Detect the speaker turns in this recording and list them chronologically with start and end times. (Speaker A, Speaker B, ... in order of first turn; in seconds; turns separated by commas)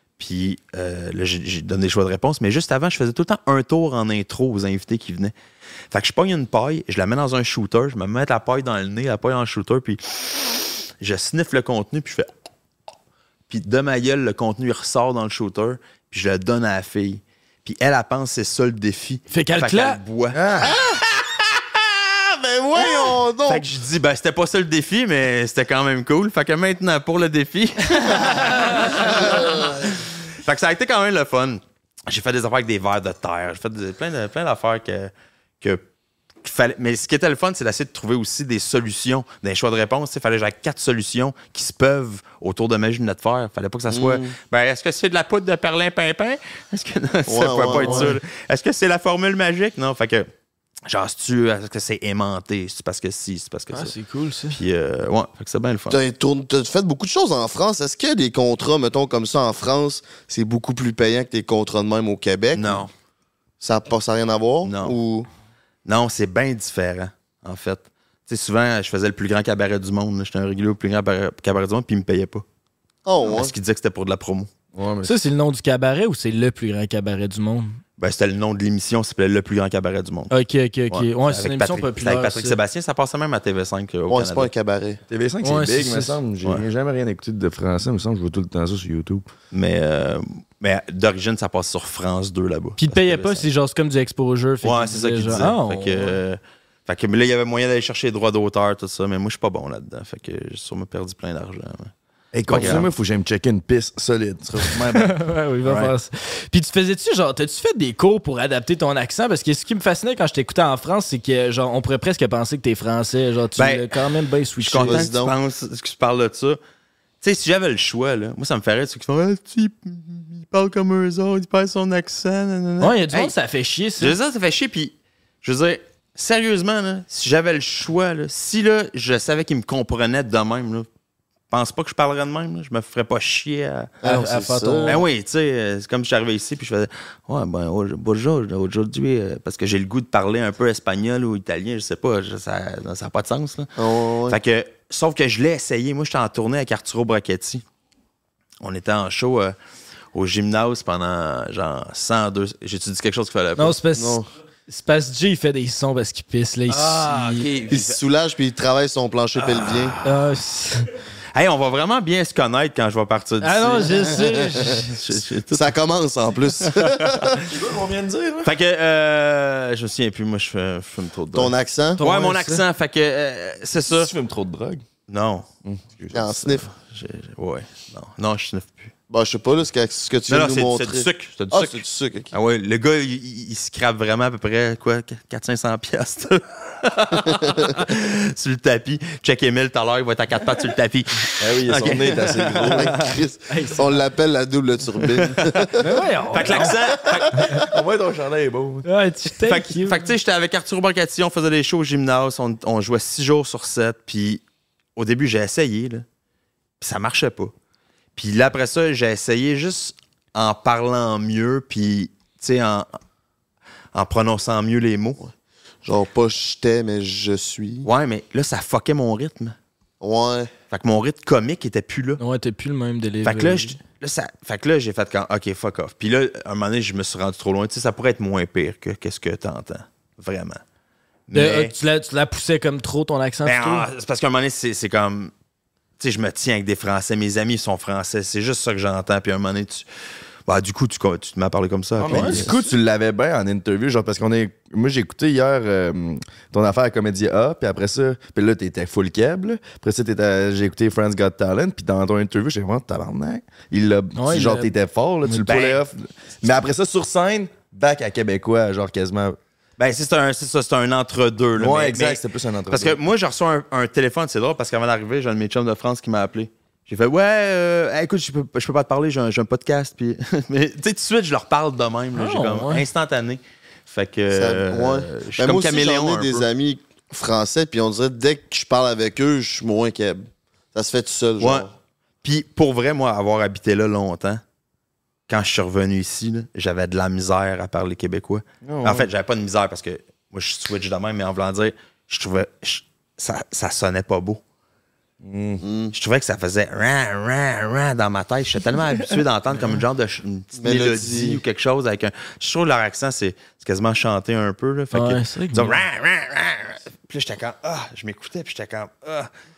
Speaker A: 0.2-5.3, Speaker A: 5.9-12.3, Speaker A: 13.5-20.4, Speaker B: 19.3-20.0, Speaker C: 20.3-20.8, Speaker D: 20.6-21.4, Speaker D: 22.1-23.6, Speaker A: 22.8-35.8, Speaker B: 28.1-28.8, Speaker D: 29.0-29.7, Speaker A: 36.4-50.3, Speaker D: 43.9-44.3, Speaker D: 47.3-48.1, Speaker B: 47.7-48.1, Speaker A: 50.9-53.9, Speaker B: 53.7-54.6, Speaker A: 54.5-56.0, Speaker D: 55.9-62.8, Speaker A: 62.5-62.9, Speaker D: 63.6-65.3, Speaker A: 64.6-65.0, Speaker A: 65.9-72.4, Speaker D: 73.0-73.5, Speaker A: 73.2-74.5, Speaker C: 74.7-75.2, Speaker B: 75.0-77.8, Speaker A: 78.0-80.3, Speaker B: 80.3-82.6, Speaker A: 80.9-84.5, Speaker D: 84.1-85.0, Speaker C: 85.1-89.3, Speaker B: 85.4-86.2, Speaker A: 89.5-93.5, Speaker B: 92.8-96.2, Speaker A: 94.6-101.9, Speaker C: 102.3-105.2, Speaker A: 102.5-102.9, Speaker B: 104.9-115.1, Speaker A: 105.7-105.9, Speaker A: 113.6-114.0, Speaker A: 114.6-116.6, Speaker D: 114.8-115.3, Speaker A: 117.2-123.3, Speaker B: 122.8-124.2, Speaker A: 124.0-130.9, Speaker A: 131.5-134.0, Speaker D: 134.0-135.0, Speaker B: 134.0-135.1, Speaker A: 134.9-143.7, Speaker D: 143.8-144.4, Speaker A: 144.3-147.6, Speaker A: 148.6-149.6, Speaker A: 150.1-153.8, Speaker B: 153.6-157.5, Speaker D: 153.9-154.3, Speaker A: 156.7-158.0, Speaker D: 157.7-160.0, Speaker A: 159.4-160.2, Speaker B: 160.0-160.9, Speaker A: 161.3-165.8, Speaker B: 163.4-165.0, Speaker D: 163.9-164.7, Speaker D: 165.5-167.4, Speaker A: 166.6-167.5, Speaker C: 167.4-168.5, Speaker A: 168.4-174.1, Speaker D: 171.3-172.0, Speaker B: 172.0-172.6, Speaker C: 173.9-174.8, Speaker A: 175.1-175.5, Speaker C: 175.7-176.2, Speaker A: 176.1-178.9, Speaker D: 176.1-176.7, Speaker D: 179.1-182.3, Speaker A: 180.3-193.0, Speaker D: 187.3-187.7, Speaker C: 191.4-192.9, Speaker D: 192.7-195.9, Speaker B: 193.5-193.9, Speaker A: 195.1-195.7, Speaker B: 195.8-196.8, Speaker A: 196.3-197.6, Speaker D: 197.1-197.5, Speaker B: 197.3-197.7, Speaker C: 197.5-198.9, Speaker B: 198.8-200.0, Speaker A: 199.4-204.4, Speaker A: 205.0-206.1, Speaker A: 206.8-207.5, Speaker A: 208.2-212.9, Speaker A: 213.9-215.2, Speaker D: 215.8-217.9, Speaker A: 217.8-219.6, Speaker D: 220.0-220.5, Speaker A: 220.7-222.2, Speaker B: 222.2-223.8, Speaker A: 223.2-230.6, Speaker A: 231.3-231.7, Speaker B: 231.3-233.9, Speaker A: 233.4-235.3, Speaker A: 236.0-239.9, Speaker A: 240.5-242.5, Speaker C: 242.0-259.4, Speaker B: 242.1-242.7, Speaker B: 254.2-254.7, Speaker A: 255.5-255.8, Speaker A: 259.8-276.5, Speaker C: 261.6-263.0, Speaker B: 272.1-272.9, Speaker D: 274.3-281.7, Speaker A: 281.4-281.7, Speaker A: 282.2-284.4, Speaker A: 285.3-294.4, Speaker C: 288.6-289.1, Speaker C: 295.2-295.6, Speaker D: 295.6-295.9, Speaker A: 295.9-309.3, Speaker D: 300.6-301.4, Speaker B: 304.9-305.8